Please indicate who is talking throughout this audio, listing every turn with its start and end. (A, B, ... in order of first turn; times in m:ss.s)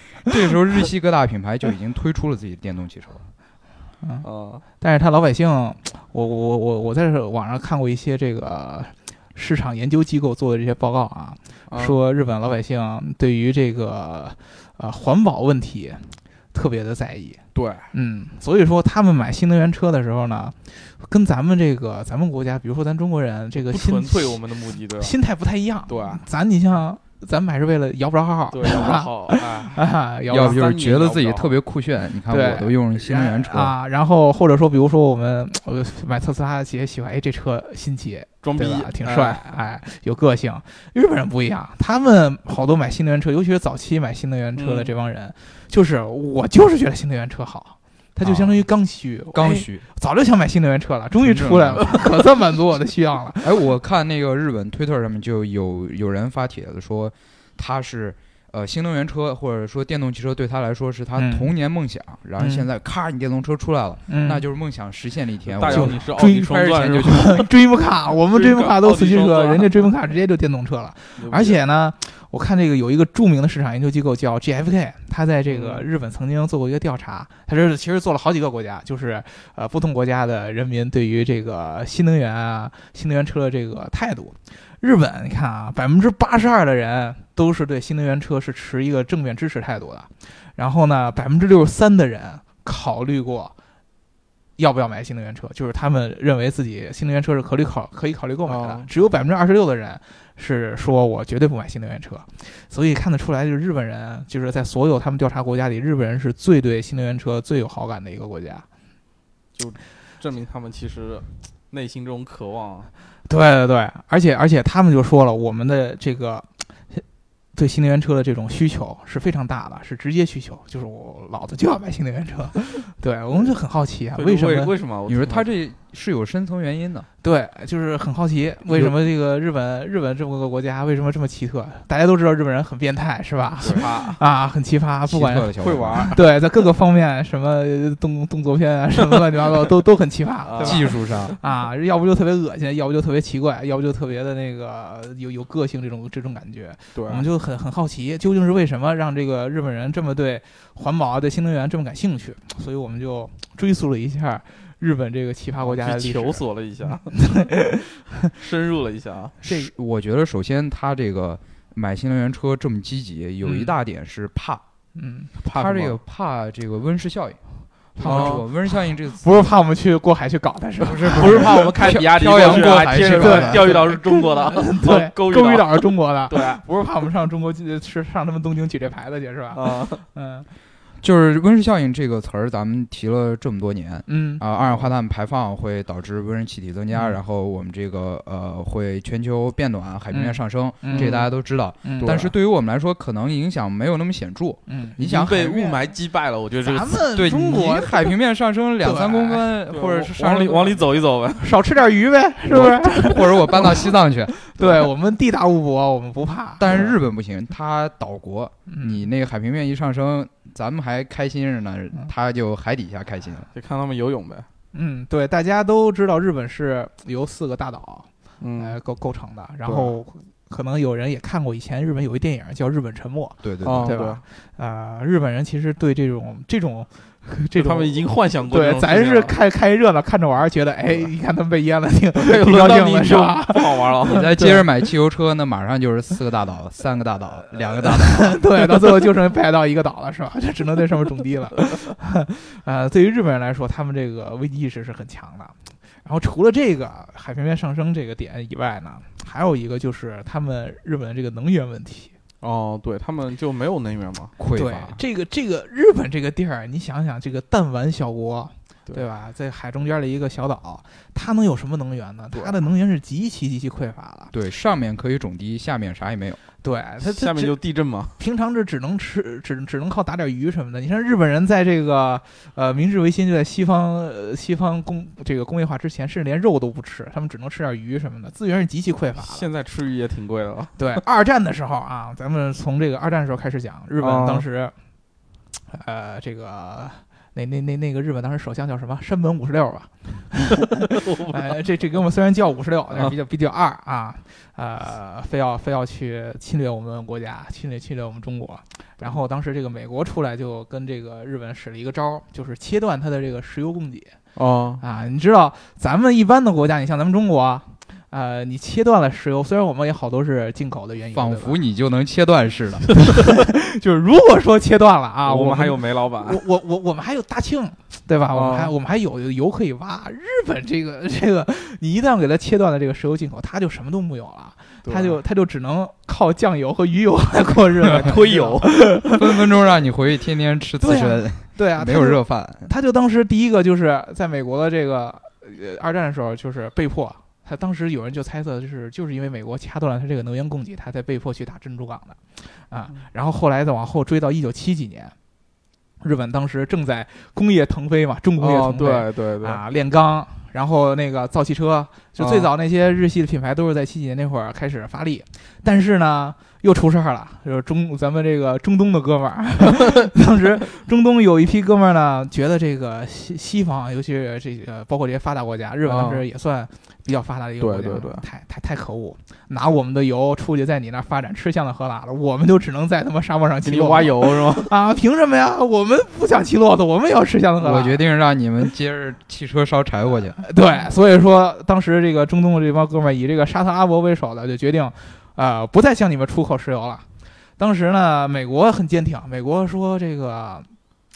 0:00.3-0:03.2 A
0:04.0-0:04.3 B
0:04.2-0:04.6 C
0:04.8-0:17.4 B
0:11.7-0:12.0 C
0:17.5-0:17.9 C
0:17.9-0:24.4 B
0:23.5-0:25.2 C
0:25.0-0:30.6 B
0:25.9-0:26.2 C
0:28.5-0:31.6 C
0:30.3-0:33.8 A
0:32.3-0:53.6 B
0:38.4-0:39.4 C
0:44.6-0:44.9 C
0:48.2-0:48.6 A
0:49.3-0:49.8 A
0:51.2-0:52.0 A
0:53.4-1:07.3 A
1:01.2-1:01.5 B
1:02.4-1:02.7 B
1:04.1-1:04.4 B
1:05.5-1:07.5 C
1:05.6-1:33.6 B
1:08.3-1:09.9 C
1:11.2-1:11.6 C
1:15.5-1:15.9 C
1:34.6-1:48.7 B
1:38.5-1:38.9 C
1:49.6-1:52.9 C
1:53.3-1:57.0 B
1:57.6-2:04.7 B
2:04.2-2:05.4 C
2:05.1-2:07.1 A
2:07.2-2:15.5 B
2:13.6-2:13.9 A
2:13.6-2:14.2 C
2:15.1-2:16.1 A
2:15.6-2:16.2 C
2:16.1-2:38.3 B
2:20.5-2:21.3 C
2:20.6-2:21.4 A
2:26.9-2:27.3 C
2:35.6-2:37.3 C
2:38.3-2:39.5 C
2:39.4-2:39.7 B
2:39.4-2:44.6 A
2:43.4-2:43.7 B
2:45.0-2:45.3 B
2:45.4-2:46.0 C
2:45.5-2:47.4 A
2:48.0-2:49.5 A
2:48.0-3:00.5 B
2:48.0-2:48.4 C
2:50.8-2:53.8 A
2:51.1-2:56.6 C
2:59.5-3:00.0 C
3:01.0-3:15.8 A
3:04.1-3:04.4 B
3:10.1-3:11.3 B
3:10.9-3:11.2 C
3:11.8-3:12.3 B
3:14.7-3:15.0 B
3:15.0-3:17.1 C
3:16.6-3:18.2 B
3:17.2-3:20.8 A
3:18.8-3:19.5 B
3:19.7-3:21.5 C
3:21.4-3:26.8 B
3:22.5-3:24.4 A
3:24.6-3:24.9 C
3:26.6-3:33.5 A
3:28.7-3:29.1 B
3:33.5-3:34.5 C
3:34.7-3:54.6 B
3:38.4-3:38.8 C
3:39.7-3:39.9 C
3:43.4-3:44.0 A
3:43.6-3:44.2 C
3:47.6-3:49.4 C
3:52.2-3:54.3 C
3:54.1-3:58.4 A
3:57.8-4:12.1 B
4:12.4-4:14.3 C
4:14.4-4:15.0 A
4:14.5-4:24.3 B
4:22.3-4:22.6 C
4:24.3-4:26.4 A
4:26.6-4:27.6 B
4:27.0-4:28.2 C
4:28.2-4:39.5 B
4:39.2-4:41.0 C
4:40.8-4:44.8 B
4:44.0-4:44.4 C
4:45.7-5:04.2 B
4:51.0-4:51.6 C
5:04.4-5:04.8 C
5:04.8-5:11.6 B
5:11.1-5:12.9 A
5:13.0-5:29.5 B
5:15.3-5:16.4 C
5:18.3-5:18.7 C
5:24.8-5:25.2 C
5:27.8-5:28.9 C
5:29.0-5:32.7 A
5:30.8-5:45.1 B
5:46.0-6:18.0 B
5:48.4-5:49.6 C
5:52.2-5:52.5 C
6:05.8-6:06.2 C
6:07.6-6:08.3 C
6:13.6-6:14.7 C
6:17.6-6:20.4 A
6:20.4-6:27.1 B
6:27.6-6:30.7 B